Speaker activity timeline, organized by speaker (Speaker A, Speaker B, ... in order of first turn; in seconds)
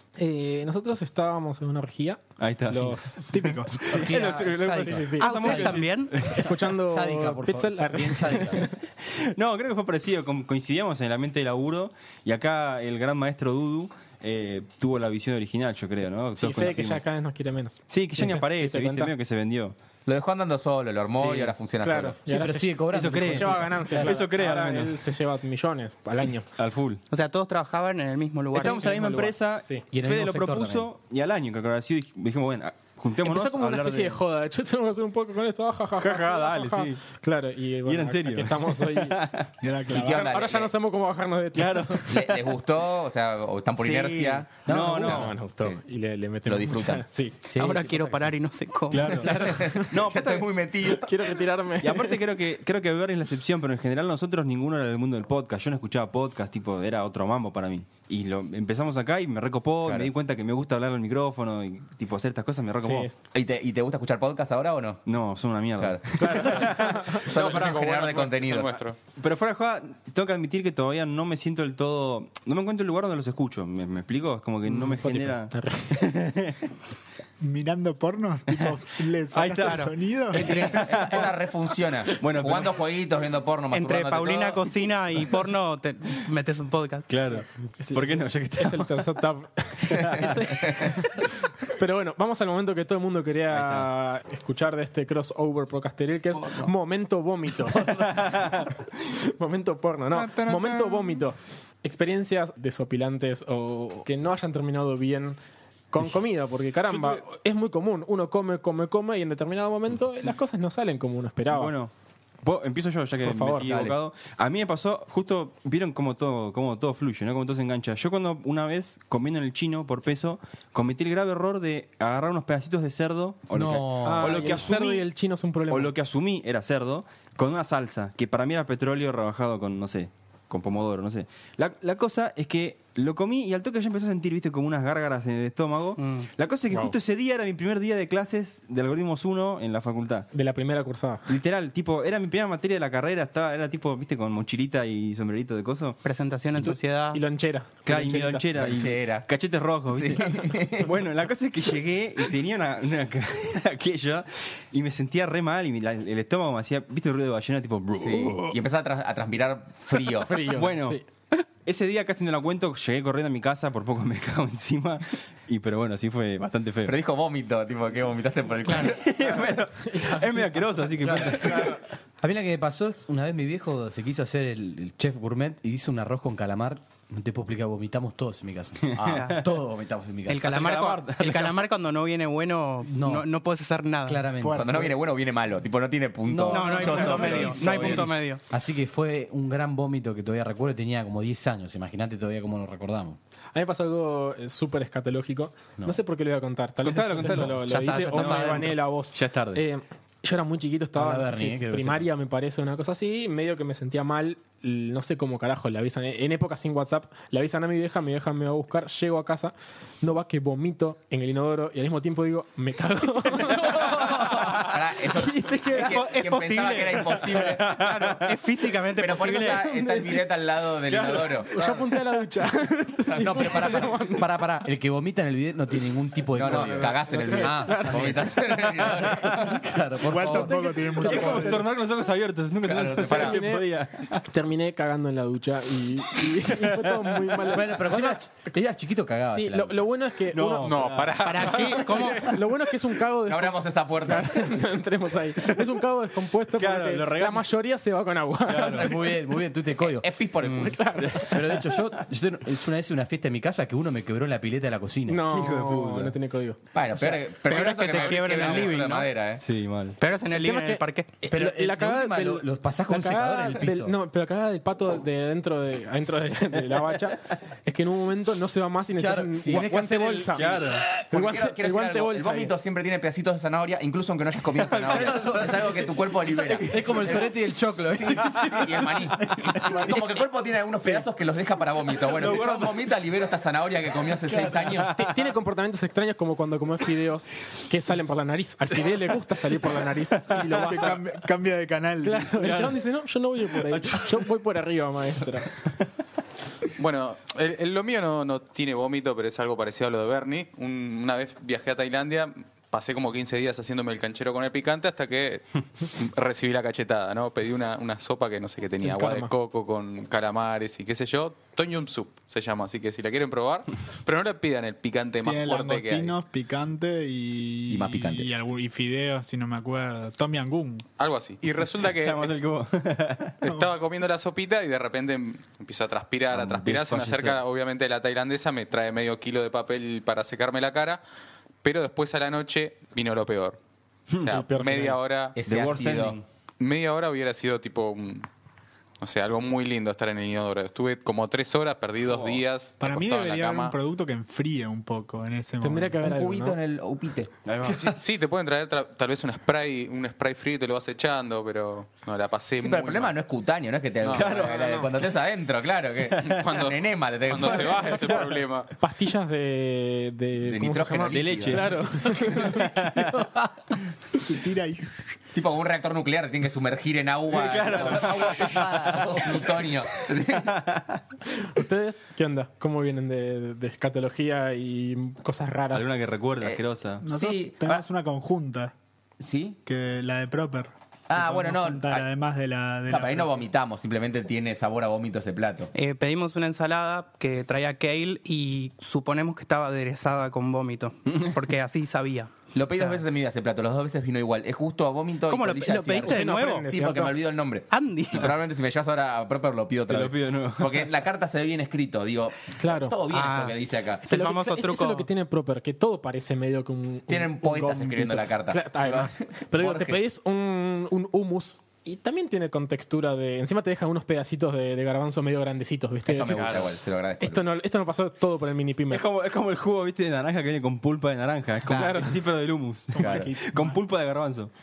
Speaker A: 0.2-3.2, 3.8-8.8, 16.3-19.1, 21.8-26.5, 28.5-29.8, 33.2-39.2, 40.0-42.2, 45.0-48.2, 49.0-50.0, 50.9-52.2, 62.8-63.1, 66.2-67.3, 74.6-76.0, 87.3-98.7, 99.2-105.4, 105.9-111.7, 113.2-113.7, 124.0-125.9, 140.3-141.3, 146.6-148.4, 160.0-161.0, 169.8-171.8, 193.5-214.4, 219.6-220.3, 221.4-224.3, 227.6-228.2, 230.3-231.6, 233.0-238.2, 239.3-240.8, 241.6-249.0, 250.6-251.4, 255.1-256.6, 260.3-272.5, 279.4-279.8, 284.3-291.0, 292.0-295.5, 308.8-309.3, 334.2-335.0, 345.6-346.6, 358.8-363.5, 371.3-376.1, 395.9-397.1, 402.6-403.0, 404.1-419.1, 421.7-422.2
Speaker B: 2.4-6.6, 8.9-17.0, 17.9-19.7, 21.2-21.5, 22.9-25.0, 26.5-27.0, 28.5-34.2, 36.0-37.0, 37.8-39.5, 41.5-42.4, 43.8-45.4, 48.9-49.3, 49.9-50.5, 51.8-63.1, 65.0-67.6, 69.1-76.6, 79.3-81.3, 82.1-82.8, 87.1-89.1, 89.9-90.3, 93.5-93.9, 97.9-98.7, 106.8-107.2, 111.5-125.0, 125.7-140.3, 141.3-146.0, 147.8-158.6, 160.5-161.0, 161.6-166.9, 168.9-171.8, 178.8-179.4, 180.5-181.6, 196.8-199.6, 217.4-218.3, 220.8-221.7, 231.0-234.2, 236.5-237.2, 240.3-242.4, 246.6-247.5, 248.4-248.9, 250.8-252.0, 255.3-256.1, 259.4-260.0, 270.3-270.9, 274.6-275.5, 282.0-282.8, 290.3-290.6, 292.4-292.8, 293.7-294.1, 321.8-323.4, 326.3-327.4, 334.1-334.4, 335.4-336.2, 342.0-342.4, 347.4-348.0, 354.1-355.0, 356.1-356.4, 361.1-363.3, 367.3-371.0, 375.7-377.0, 391.1-391.4, 399.9-400.9, 416.2-416.7, 418.9-424.5
Speaker C: 3.3-3.8, 39.6-40.3, 77.4-80.6, 100.1-101.2, 184.3-184.9, 230.0-231.7, 290.5-292.5, 315.2-320.8, 342.8-346.0, 364.2-364.9, 377.0-378.7, 379.6-383.4, 422.9-423.8
Speaker D: 3.9-4.8, 6.8-8.7, 22.2-24.2, 29.8-30.9, 44.6-45.3, 47.5-48.0, 123.5-124.7, 171.0-171.5, 172.2-180.5, 182.8-183.3, 184.1-184.9, 186.2-193.2, 200.9-202.1, 214.0-214.5, 223.2-231.2, 237.4-239.8, 248.6-250.1, 251.2-255.2, 261.2-263.9, 268.9-270.8, 274.8-280.0
Speaker E: 3.9-6.2, 27.1-29.1, 47.5-49.4, 79.6-79.9, 83.7-87.1, 136.0-136.3, 146.0-147.2, 168.6-169.0, 179.1-179.4, 180.2-184.2, 186.5-188.4, 197.7-198.8, 215.1-219.8, 241.2-242.3, 250.4-250.7, 257.4-259.1, 260.0-261.1, 385.7-392.3, 395.3-396.7, 397.7-398.3, 403.1-405.1
Speaker F: 20.1-22.2, 39.9-40.7, 42.1-44.7, 45.4-45.8, 46.4-47.0, 49.3-51.3, 59.8-60.1, 63.3-65.1, 65.8-68.8, 80.3-84.7, 96.4-96.7, 113.6-113.9, 148.6-149.3, 149.9-151.0, 157.9-160.6, 166.8-169.6, 184.5-188.1, 214.3-217.7, 219.0-221.8, 223.1-224.0, 226.3-229.7, 232.6-233.4, 243.2-244.6, 249.8-250.9, 256.7-259.4, 270.9-277.4, 277.9-285.0, 317.7-318.3, 335.3-336.2, 346.0-347.3, 352.6-358.2, 360.4-361.7, 365.3-370.6, 376.4-377.8, 379.2-379.6, 381.1-382.1, 382.9-385.7, 392.5-404.1, 407.1-410.0, 416.1-417.4, 423.0-423.3
Speaker G: 67.2-69.0, 240.6-241.8, 296.8-316.1, 321.0-322.3, 323.4-331.0, 331.6-333.6, 334.2-335.4, 336.6-338.3, 339.0-343.8, 347.6-353.2, 354.0-354.5, 356.2-358.7